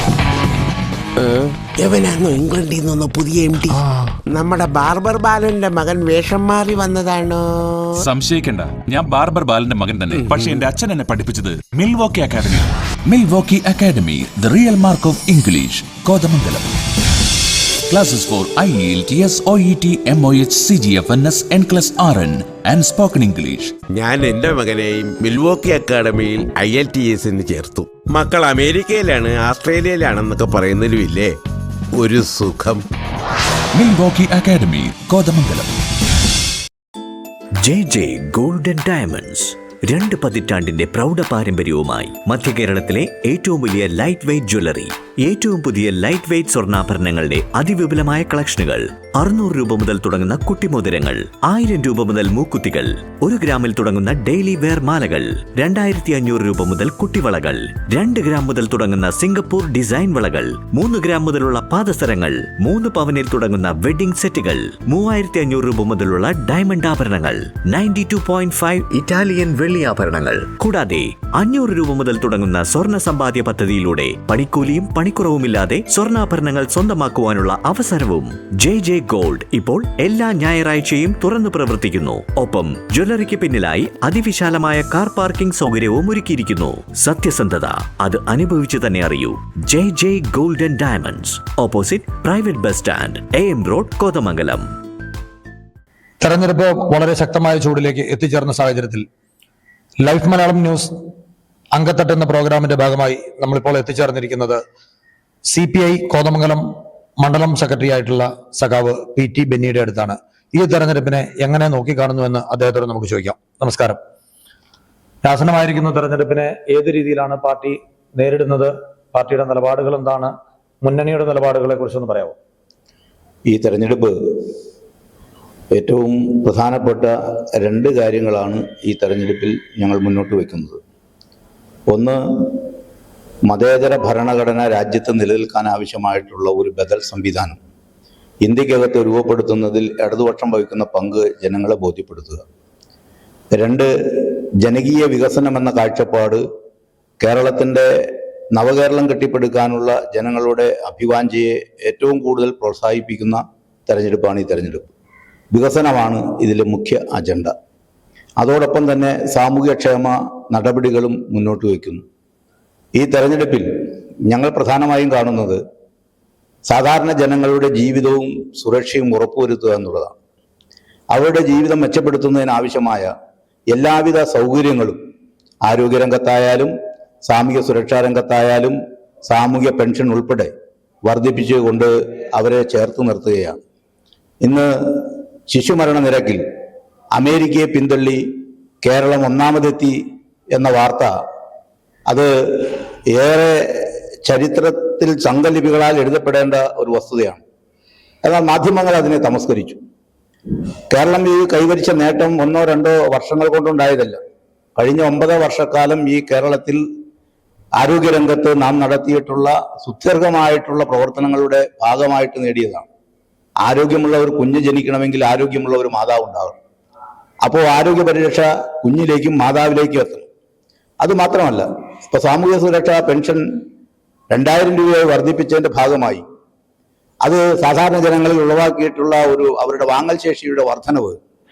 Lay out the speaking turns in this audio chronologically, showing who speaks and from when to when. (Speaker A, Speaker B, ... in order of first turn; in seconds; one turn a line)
Speaker A: 1.2-3.8
Speaker A: 4.3-7.8
Speaker B: 8.0-16.7
Speaker A: 10.2-10.6
Speaker B: 17.9-23.7
Speaker A: 23.9-31.3
Speaker A: 32.0-32.8
Speaker B: 33.7-35.7
Speaker C: 37.6-94.7
Speaker D: 96.2-99.0
Speaker D: 100.0-100.9
Speaker D: 101.7-104.6
Speaker D: 105.5-106.6
Speaker D: 107.2-114.0
Speaker D: 115.2-122.3
Speaker E: 123.5-124.1
Speaker E: 125.7-130.8
Speaker E: 131.9-132.2
Speaker E: 133.5-137.6
Speaker E: 138.4-142.4
Speaker E: 143.5-146.4
Speaker E: 147.2-147.9
Speaker E: 148.5-154.9
Speaker E: 155.5-157.5
Speaker E: 158.4-162.0
Speaker E: 163.0-163.7
Speaker E: 164.3-165.6
Speaker E: 166.7-170.1
Speaker E: 171.1-173.1
Speaker E: 173.7-175.0
Speaker E: 175.6-176.7
Speaker E: 177.2-180.5
Speaker E: 181.1-183.6
Speaker E: 184.4-186.4
Speaker E: 187.1-188.2
Speaker E: 188.8-190.0
Speaker E: 190.5-191.1
Speaker E: 192.1-197.4
Speaker E: 198.2-199.8
Speaker E: 200.9-204.2
Speaker E: 204.8-206.8
Speaker E: 207.8-212.9
Speaker E: 213.6-216.6
Speaker E: 217.4-220.2
Speaker E: 221.0-223.4
Speaker E: 224.3-226.2
Speaker E: 227.2-231.2